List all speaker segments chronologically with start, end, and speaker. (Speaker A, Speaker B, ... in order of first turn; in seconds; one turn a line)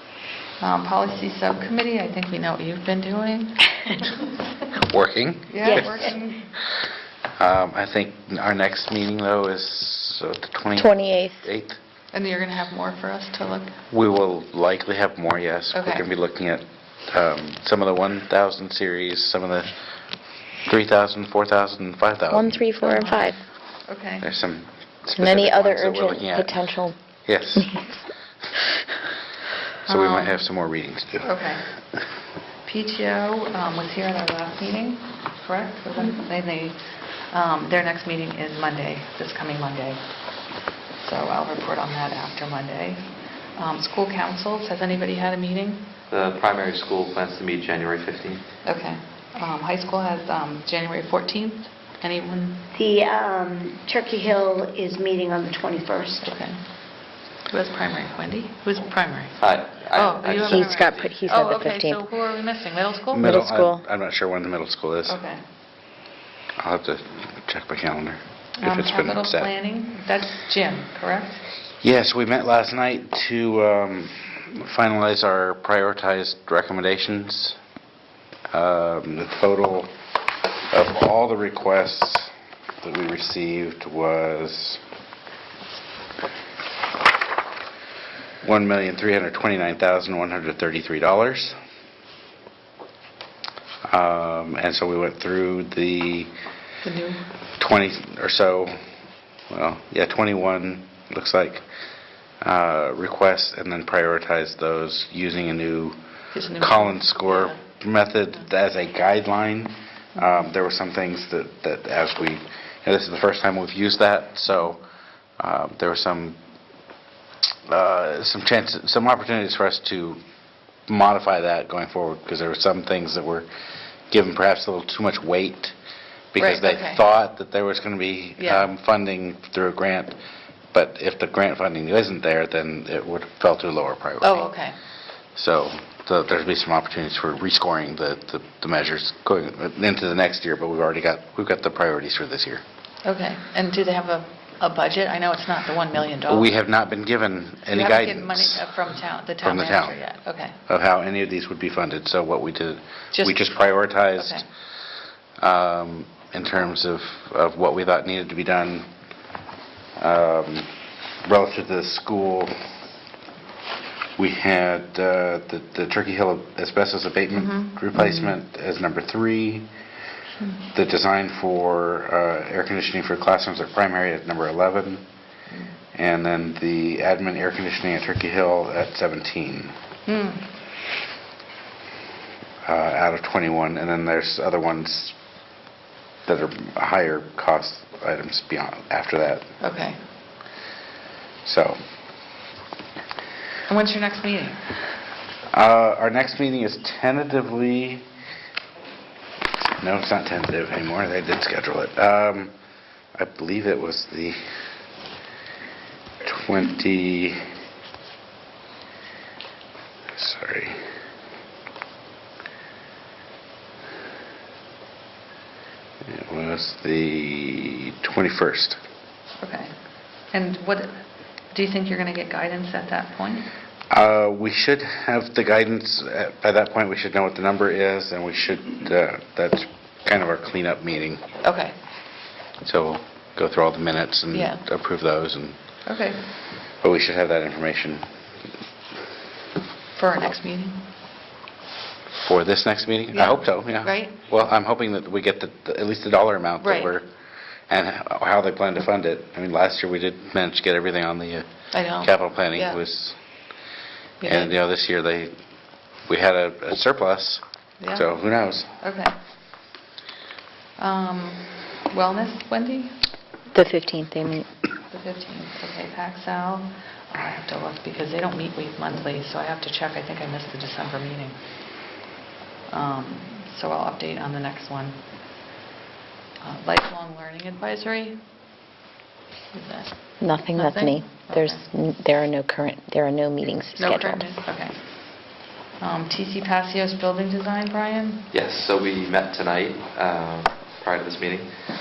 Speaker A: 0.6-4.1
Speaker B: 4.8-6.0
Speaker A: 5.5-6.4
Speaker C: 5.6-6.4
Speaker B: 7.4-11.8
Speaker D: 10.8-11.4
Speaker A: 12.1-13.7
Speaker B: 13.9-19.7
Speaker A: 15.7-16.1
Speaker B: 20.6-22.6
Speaker D: 22.3-23.4
Speaker A: 22.8-23.4
Speaker A: 23.9-24.2
Speaker B: 24.2-26.6
Speaker D: 25.2-26.9
Speaker B: 27.2-27.8
Speaker B: 29.9-31.3
Speaker A: 29.9-30.4
Speaker A: 31.2-31.6
Speaker A: 32.6-40.0
Speaker A: 41.0-45.9
Speaker E: 46.1-48.4
Speaker A: 48.6-52.6
Speaker C: 52.7-56.3
Speaker A: 56.2-56.6
Speaker A: 57.5-59.4
Speaker E: 59.4-61.0
Speaker A: 59.9-63.3
Speaker D: 60.3-62.0
Speaker B: 63.1-65.2
Speaker D: 63.1-63.8
Speaker A: 65.1-65.4
Speaker B: 66.6-69.5
Speaker A: 68.6-71.4
Speaker B: 71.8-77.6
Speaker B: 78.5-79.9
Speaker B: 80.7-84.8
Speaker B: 88.4-91.6
Speaker B: 93.9-96.3
Speaker A: 96.8-97.2
Speaker B: 97.6-98.7
Speaker B: 99.5-101.6
Speaker B: 102.4-106.0
Speaker A: 106.3-107.5
Speaker B: 106.6-114.8
Speaker B: 115.4-116.4
Speaker B: 117.7-120.2
Speaker B: 120.9-123.5
Speaker B: 124.1-125.7
Speaker B: 126.3-130.2
Speaker A: 126.4-127.0
Speaker A: 128.4-128.7
Speaker B: 130.7-134.5
Speaker A: 134.2-134.8
Speaker B: 135.3-142.6
Speaker A: 143.0-146.5
Speaker B: 146.3-148.7
Speaker A: 147.7-150.5
Speaker B: 149.4-150.0
Speaker B: 150.7-154.4
Speaker A: 153.1-153.5
Speaker A: 154.2-154.4
Speaker B: 155.4-158.9
Speaker B: 160.0-160.7
Speaker B: 161.3-162.5
Speaker B: 164.2-169.7
Speaker A: 167.4-168.3
Speaker B: 170.7-175.0
Speaker B: 175.9-179.7
Speaker A: 180.1-180.4
Speaker B: 182.7-185.2
Speaker B: 186.2-189.4
Speaker A: 189.6-190.0
Speaker B: 191.4-191.8
Speaker A: 193.7-194.6
Speaker B: 195.5-198.1
Speaker B: 199.8-202.5
Speaker B: 203.2-204.4
Speaker B: 206.2-207.4
Speaker B: 210.2-210.8
Speaker B: 216.0-218.8
Speaker A: 219.4-219.7
Speaker A: 220.3-220.9
Speaker A: 221.5-223.5
Speaker B: 223.9-231.2
Speaker A: 231.4-231.7
Speaker B: 232.6-235.6
Speaker A: 234.3-234.6
Speaker A: 235.8-236.2
Speaker B: 236.8-238.1
Speaker A: 239.9-240.8
Speaker B: 242.2-247.1
Speaker A: 243.1-244.1
Speaker A: 246.6-246.9
Speaker B: 247.7-251.5
Speaker A: 251.7-252.8
Speaker B: 252.0-253.2
Speaker A: 254.2-254.5
Speaker B: 254.2-255.3
Speaker B: 256.1-257.4
Speaker A: 257.8-258.1
Speaker B: 257.9-258.7
Speaker A: 258.8-259.1
Speaker A: 260.8-262.9
Speaker D: 263.5-264.5
Speaker A: 264.9-271.4
Speaker A: 272.7-275.0
Speaker A: 276.4-278.2
Speaker A: 279.5-281.6
Speaker D: 280.2-284.2
Speaker A: 283.8-288.2
Speaker E: 288.3-291.5